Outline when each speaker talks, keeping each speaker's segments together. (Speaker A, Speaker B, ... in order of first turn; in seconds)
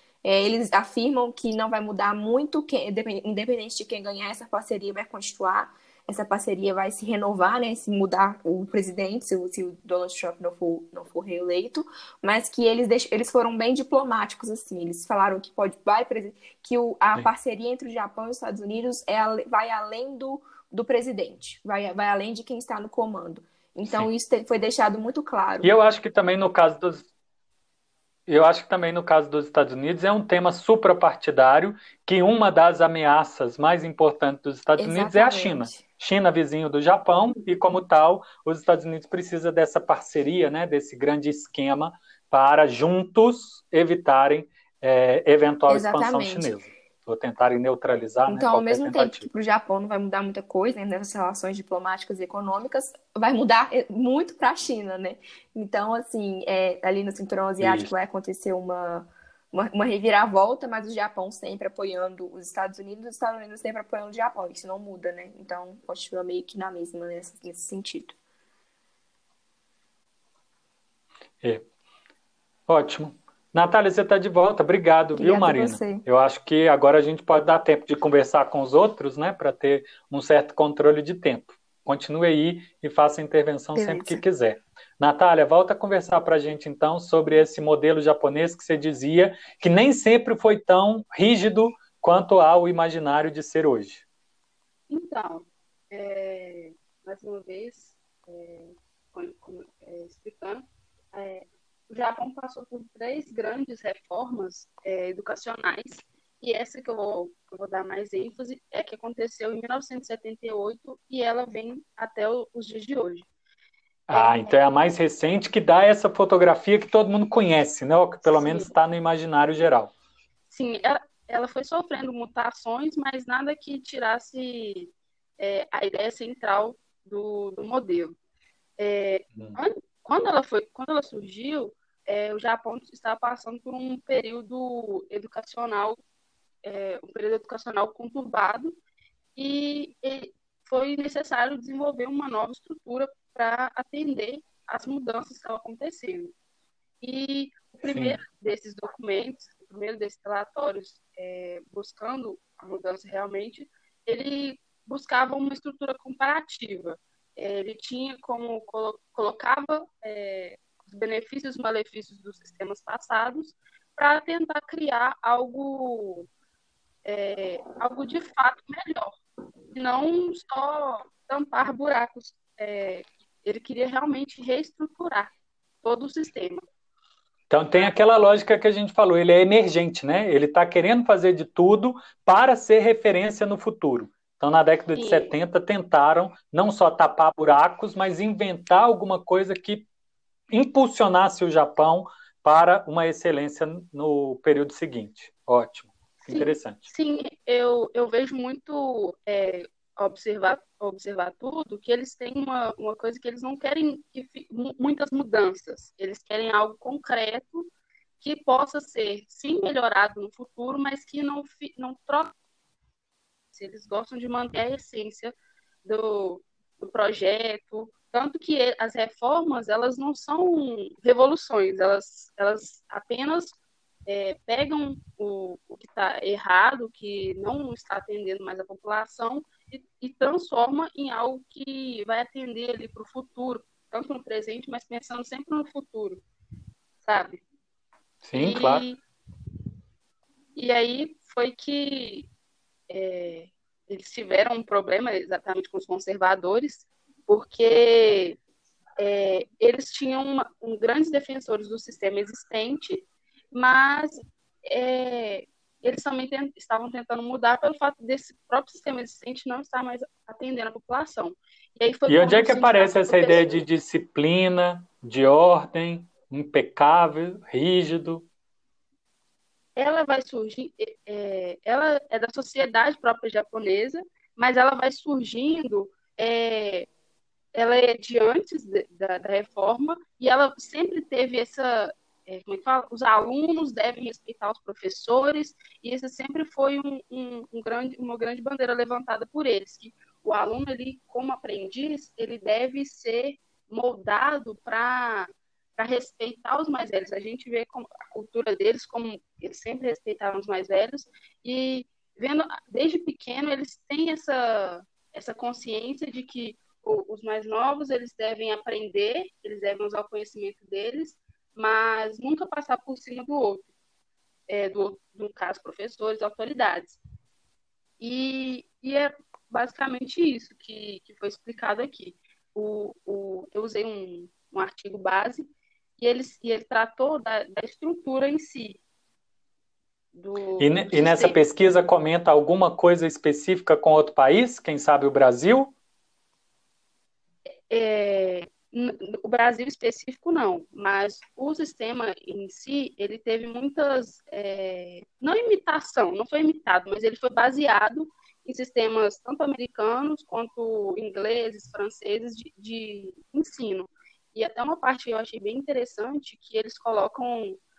Speaker A: 0.2-25.7, 34.8-35.9, 45.7-46.5, 48.2-68.2, 75.1-76.0, 83.7-84.2
Speaker B: 25.6-27.1, 28.3-49.3, 57.6-57.9, 72.7-94.0, 114.1-119.9, 147.8-148.2, 177.5-189.9, 190.5-196.8, 238.2-238.8, 262.1-268.3, 330.6-335.7
Speaker C: 94.9-113.3, 114.1-114.5, 118.2-118.7, 120.5-128.1, 128.8-136.0, 136.6-138.8, 139.4-146.3, 147.0-166.3, 167.1-169.2, 169.7-176.7, 184.9-185.3, 196.3-212.3, 213.5-236.2, 237.0-237.4, 238.4-239.0, 240.6-242.3, 242.9-248.4, 249.0-263.6, 269.8-276.9, 277.5-313.6, 314.5-317.0, 318.0-328.8, 330.1-331.4, 337.7-357.6